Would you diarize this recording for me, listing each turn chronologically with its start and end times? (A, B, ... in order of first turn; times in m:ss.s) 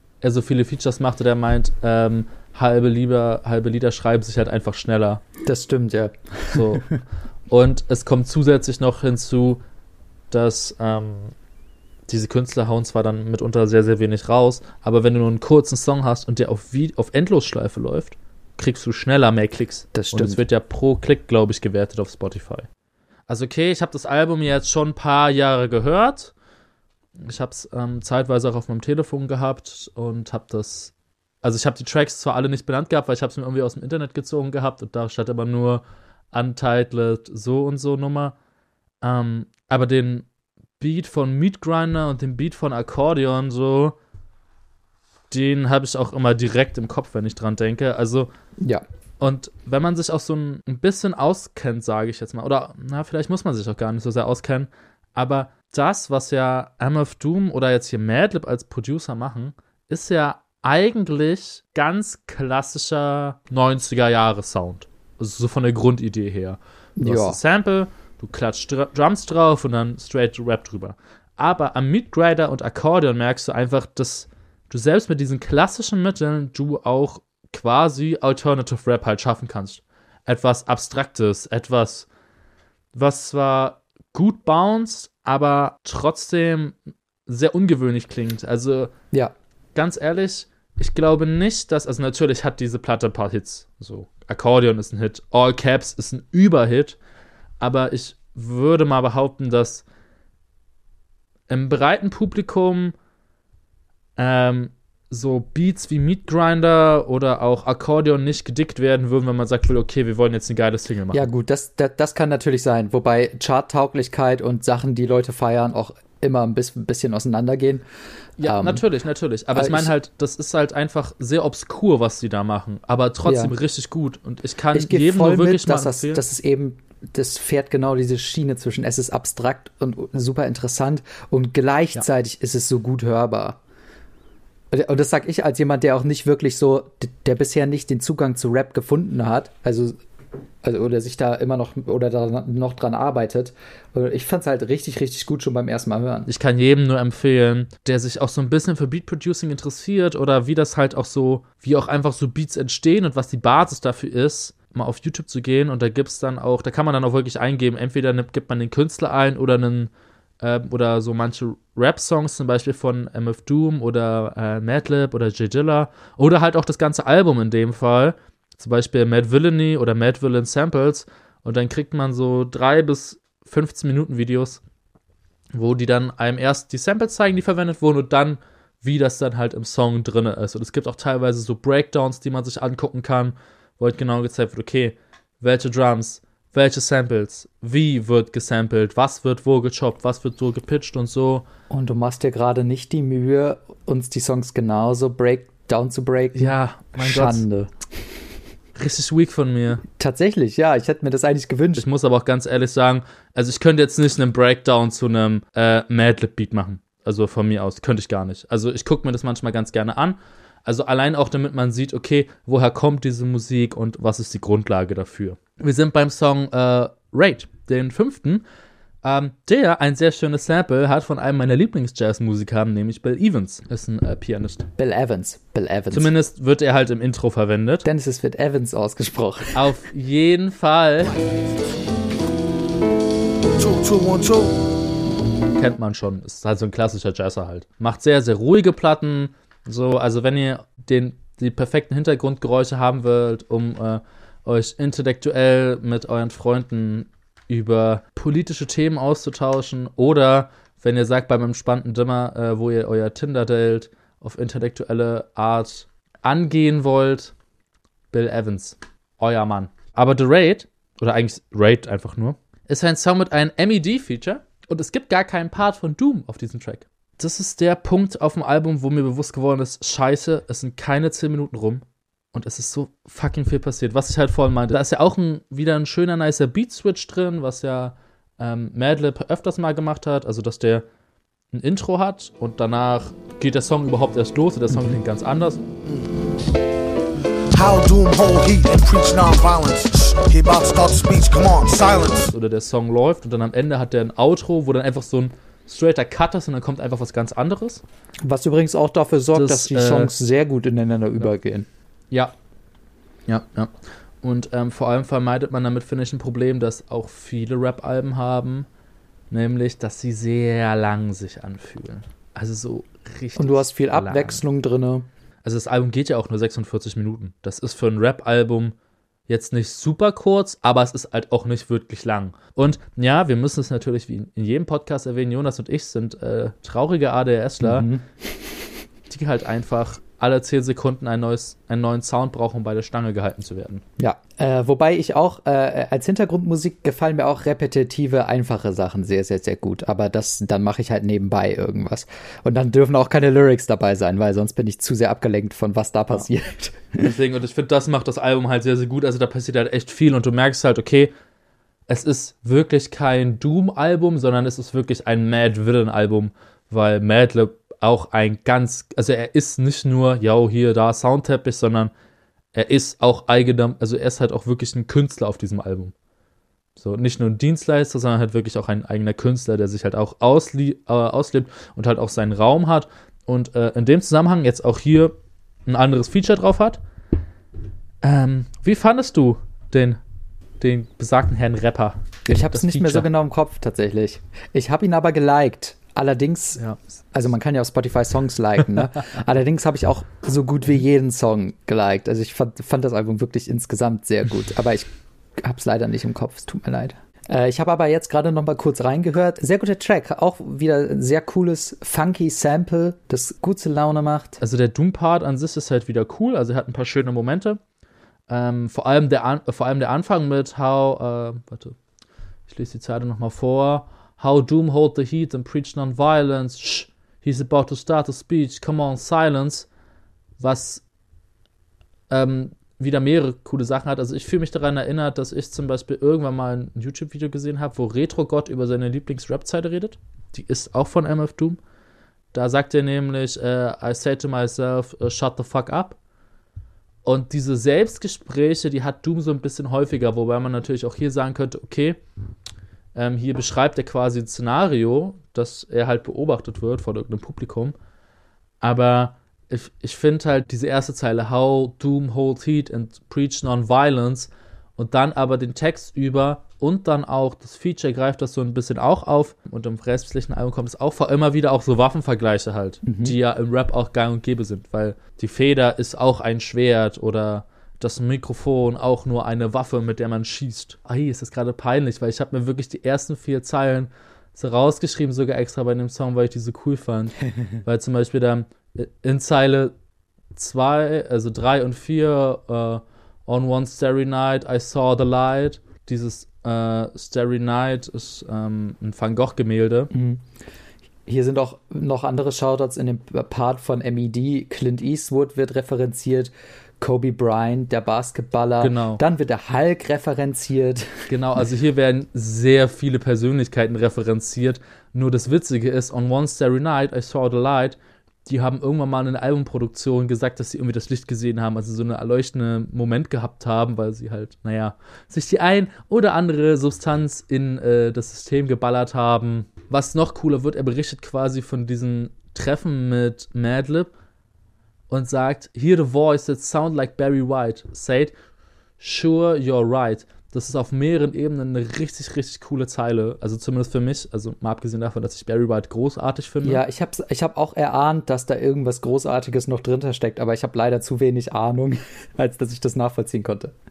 0:00.2-0:05.2 A
0:05.4-0:06.9 B
0:06.5-0:06.9 A
0:07.5-0:09.6 A
0:10.3-0:11.3 A
0:12.1-0:22.7 A
0:19.9-0:20.4 B
0:23.3-0:26.3 A
0:27.2-0:30.9 A
0:31.4-0:38.4 A
0:39.0-0:40.3 A
0:40.8-0:44.0 A
0:45.3-0:48.3 A
0:49.2-1:22.1 A
1:07.0-1:07.4 B
1:22.9-1:28.9 A
1:29.8-1:37.0 A
1:37.6-1:39.8 A
1:41.5-1:42.9 A
1:44.2-1:51.2 A
1:51.1-1:57.8 B
1:58.4-2:06.2 A
1:58.4-1:58.8 B
1:59.5-1:59.9 B
2:03.2-2:03.5 B
2:04.7-2:13.6 B
2:14.7-2:20.0 B
2:20.6-2:26.3 B
2:26.3-2:39.9 A
2:40.4-2:54.6 A
2:55.5-3:11.5 A
3:11.7-3:17.7 B
3:16.4-3:17.5 A
3:18.8-3:19.8 A
3:20.0-3:21.9 B
3:21.8-3:38.4 A
3:39.0-3:44.7 A
3:44.8-3:46.1 B
3:45.9-3:47.9 A
3:47.8-3:49.8 B
3:49.5-3:51.2 A
3:53.6-3:54.6 C
3:55.6-4:17.3 A
4:18.1-4:40.8 A
4:41.5-4:45.6 A
4:44.7-4:45.0 B
4:47.5-4:52.3 C
4:52.3-4:57.8 A
4:58.2-5:01.7 B
4:59.3-5:00.2 A
5:03.3-5:03.7 A
5:04.2-5:08.7 A
5:09.3-5:14.4 A
5:13.4-5:15.1 B
5:15.4-5:18.8 A
5:19.3-5:27.9 A
5:27.6-5:28.5 B
5:29.1-5:33.8 A
5:34.0-5:47.2 B
5:47.0-5:51.1 A
5:51.9-6:01.9 A
6:02.6-6:05.9 A
6:06.8-6:15.2 A
6:15.7-6:16.8 A
6:18.0-6:20.0 A
6:20.6-6:23.1 A
6:22.3-6:26.6 B
6:27.1-6:44.4 B
6:44.4-6:47.6 A
6:48.3-6:51.8 A
6:52.5-6:59.7 A
7:00.4-7:00.8 A
7:02.1-7:11.6 A
7:12.3-7:16.0 A
7:17.0-7:22.0 A
7:23.0-7:27.8 A
7:28.6-7:59.7 A
7:42.8-7:43.2 B
8:00.4-8:09.9 A
8:09.9-8:10.2 B
8:11.1-8:21.1 B
8:18.6-8:19.0 A
8:21.1-8:43.9 A
8:44.9-8:48.1 A
8:48.8-8:56.6 A
8:56.4-9:03.6 B